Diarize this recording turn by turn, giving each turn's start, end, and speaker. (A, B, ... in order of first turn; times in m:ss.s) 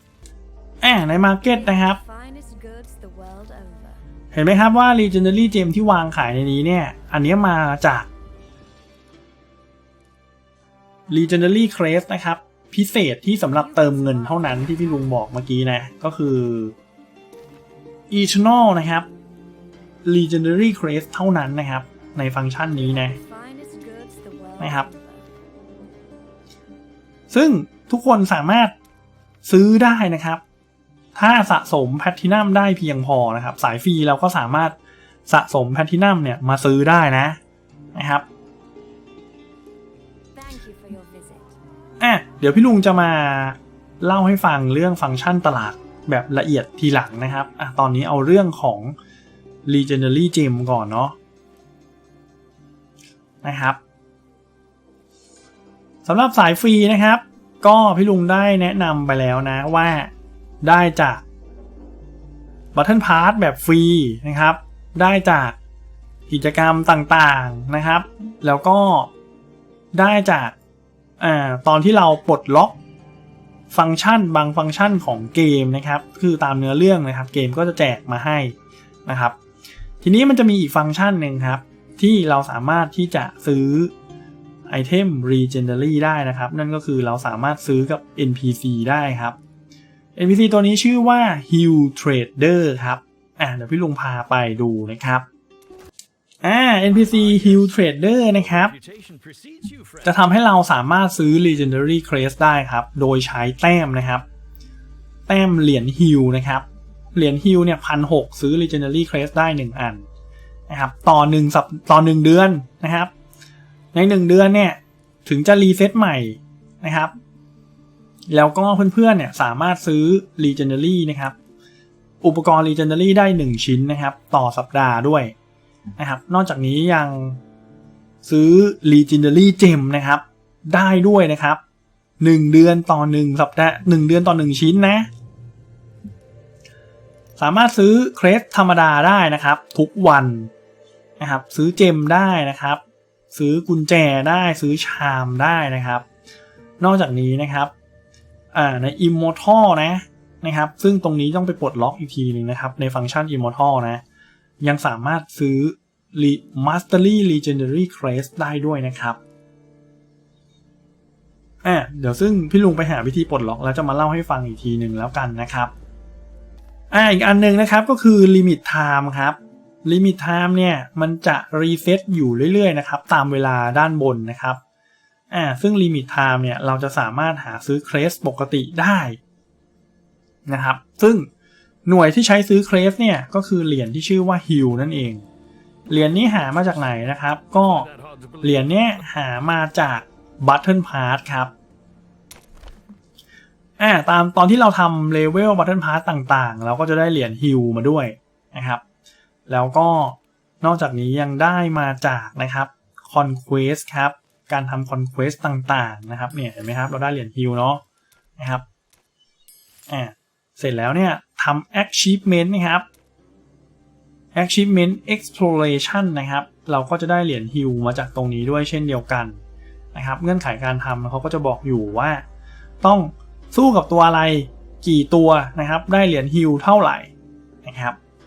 0:00.8-0:02.0 A
0:01.4-0:04.0 B
0:04.3-0:08.1 A
0:11.1-0:16.8 A
0:13.4-0:15.2 B
0:18.1-0:19.1 A
0:20.0-0:23.2 A
0:22.6-0:25.3 B
0:24.6-0:24.9 A
0:27.3-0:28.7 A
0:29.4-0:30.4 A
0:31.1-0:34.8 A
0:35.3-0:37.4 A
0:37.9-0:38.2 A
0:40.3-0:41.5 B
0:42.0-0:48.9 A
0:49.6-0:51.2 A
0:53.4-0:53.8 A
0:56.0-1:00.1 A
1:00.6-1:01.2 A
1:02.7-1:05.6 A
1:06.3-1:09.1 A
1:09.9-1:10.6 A
1:11.2-1:12.8 A
1:13.7-1:19.4 A
1:20.0-1:23.9 A
1:24.7-1:29.4 A
1:30.2-1:35.2 A
1:36.4-1:38.7 A
1:37.1-1:37.6 C
1:38.7-1:40.1 C
1:40.0-1:44.2 A
1:45.3-1:50.0 A
1:50.7-1:53.1 A
1:53.9-1:57.1 A
1:58.3-2:01.3 A
2:02.2-2:05.3 A
2:06.0-2:07.4 A
2:08.2-2:11.6 A
2:12.2-2:15.1 A
2:17.4-2:20.5 A
2:21.2-2:22.8 A
2:23.3-2:26.0 A
2:26.8-2:27.7 A
2:28.5-2:34.0 A
2:34.6-2:39.2 A
2:41.6-2:45.7 A
2:46.9-2:54.6 A
2:55.3-2:59.2 A
3:00.5-3:01.3 A
3:01.8-3:05.2 A
3:05.9-3:11.5 A
3:13.8-3:18.8 A
3:19.5-3:27.8 A
3:28.4-3:28.6 A
3:29.9-3:32.8 A
3:34.3-3:39.4 A
3:39.9-3:42.2 A
3:42.8-3:47.1 A
3:47.6-3:48.0 A